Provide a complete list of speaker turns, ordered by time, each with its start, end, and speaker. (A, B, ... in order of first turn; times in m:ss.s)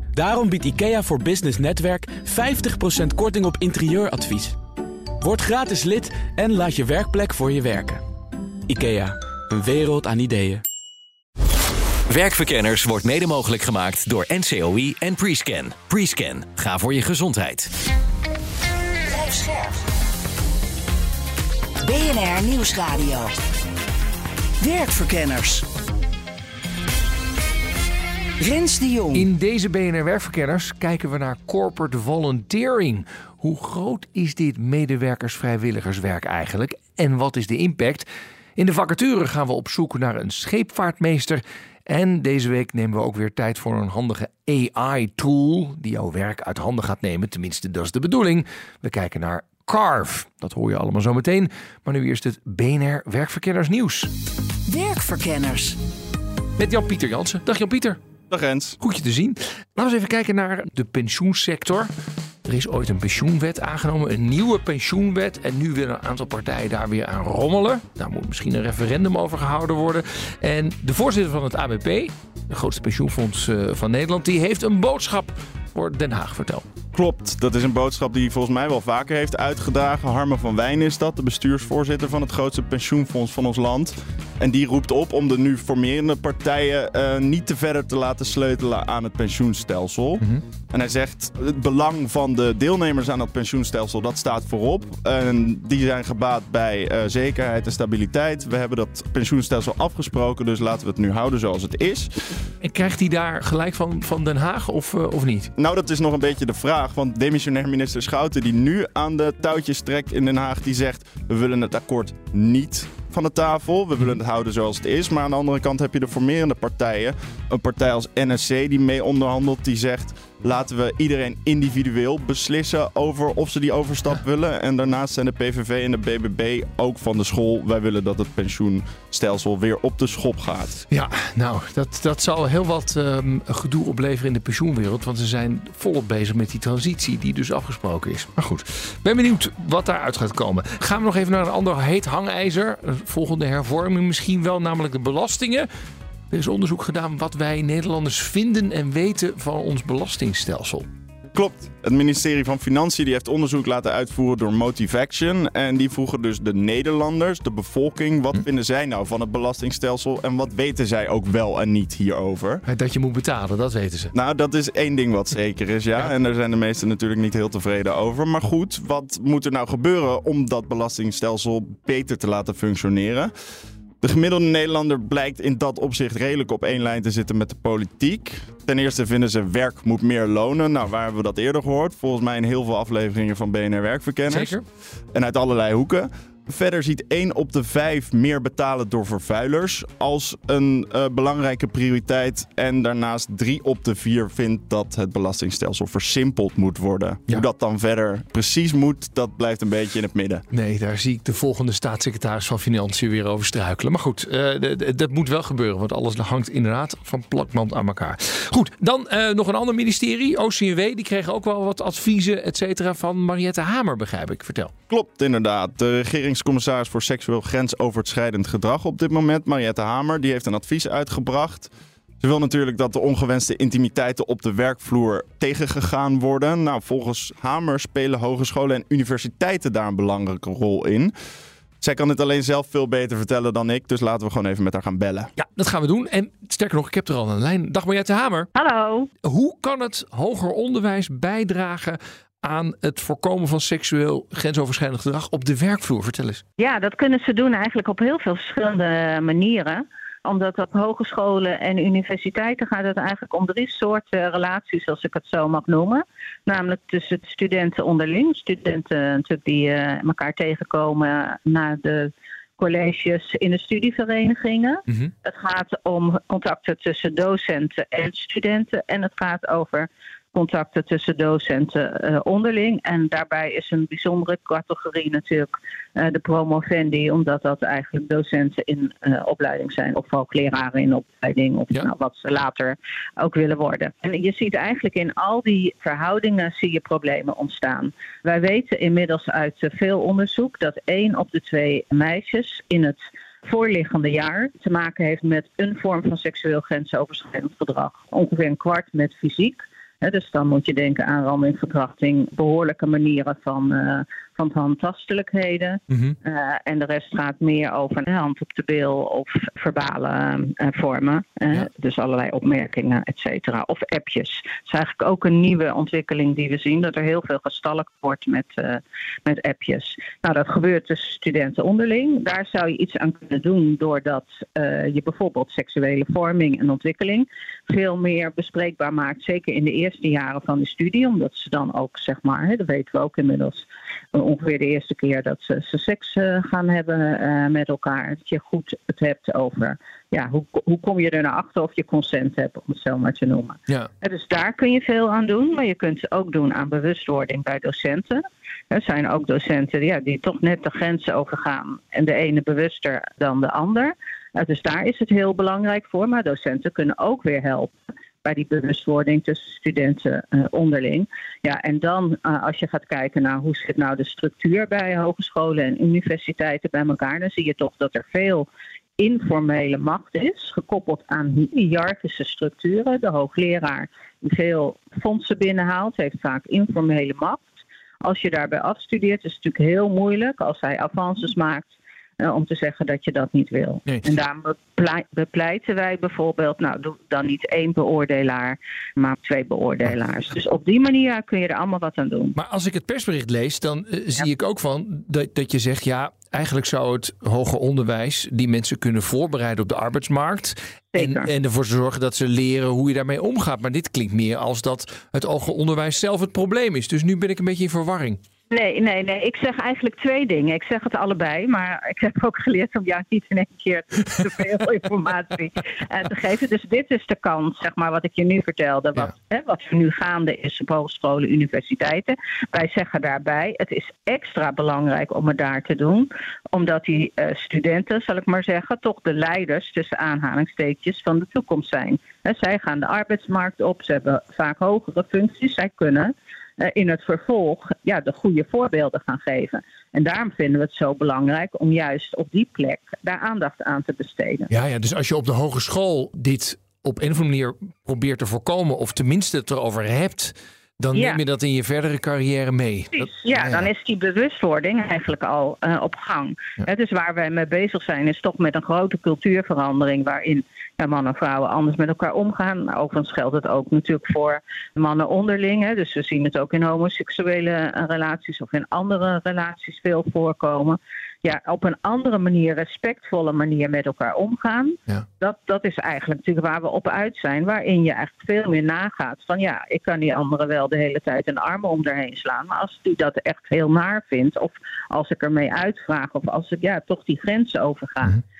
0:00.1-0:04.6 A
0:05.2-0:08.0 A
0:08.7-0:10.6 A
0:12.1-0:17.7 B
0:19.1-0:19.8 C
0:21.8-0:23.3 C
0:24.6-0:25.7 C
0:28.4-0:29.3 C
0:29.1-0:54.1 D
0:54.7-0:55.8 C
0:56.6-0:58.0 D
0:58.3-0:58.8 E
0:58.8-1:01.9 D
1:02.4-1:16.7 D
1:16.9-1:42.2 E
1:42.6-1:45.5 D
1:45.6-2:10.8 E
2:10.9-2:25.7 D
2:26.3-2:30.9 D
2:31.3-2:42.6 E
2:42.7-2:44.1 D
2:44.1-2:53.3 E
2:54.0-3:04.6 E
3:04.3-3:04.6 D
3:05.1-3:20.4 E
3:20.5-3:34.7 D
3:34.9-3:41.7 E
3:42.2-3:51.1 E
3:51.8-3:55.3 E
3:55.4-3:58.5 D
3:58.6-3:59.1 F
3:59.2-4:06.4 D
4:06.6-5:57.7 F
5:05.9-5:06.2 D
5:58.2-6:08.5 F
6:09.0-6:17.4 F
6:18.0-6:32.4 F
6:32.4-6:48.2 D
6:41.0-6:41.3 F
6:48.5-7:24.5 F
7:24.5-7:33.7 D
7:30.9-7:31.2 F
7:33.0-8:08.2 F